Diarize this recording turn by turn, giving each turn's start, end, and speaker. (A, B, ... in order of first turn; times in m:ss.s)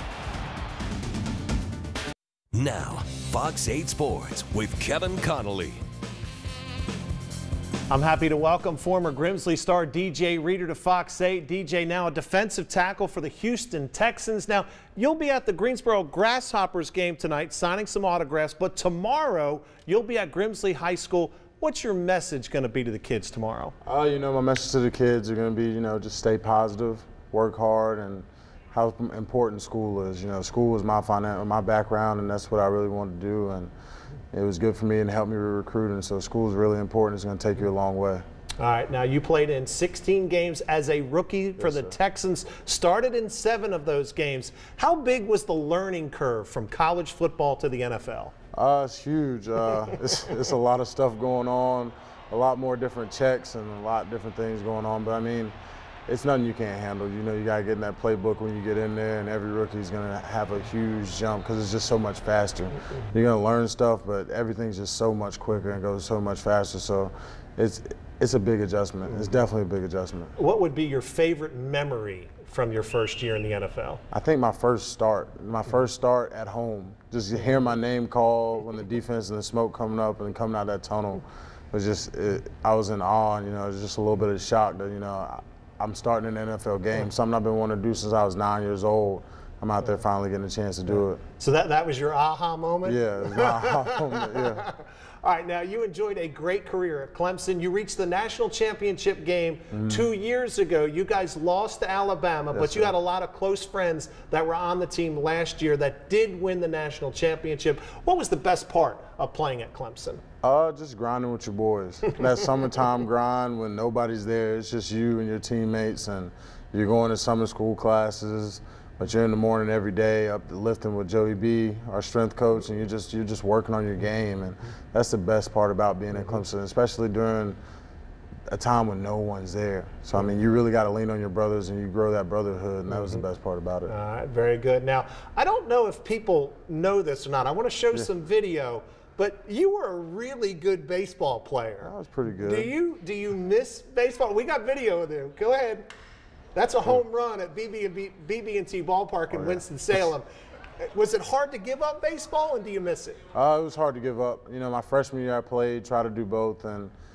0:02.5-0:05.8 A
0:07.9-0:23.7 B
0:23.8-0:33.7 C
0:34.3-0:38.2 C
0:38.6-0:48.3 B
0:41.6-0:42.0 C
0:48.5-0:55.5 C
0:56.1-1:10.3 C
1:10.4-1:14.0 B
1:14.1-1:31.2 C
1:31.4-1:50.2 B
1:32.8-1:34.7 C
1:39.7-1:40.1 C
1:42.5-1:42.9 C
1:50.4-2:07.6 C
2:08.5-2:13.9 C
2:13.9-2:25.8 B
2:21.8-2:22.7 C
2:26.6-2:30.3 B
2:29.3-2:29.6 C
2:30.8-2:33.2 B
2:33.3-2:36.9 C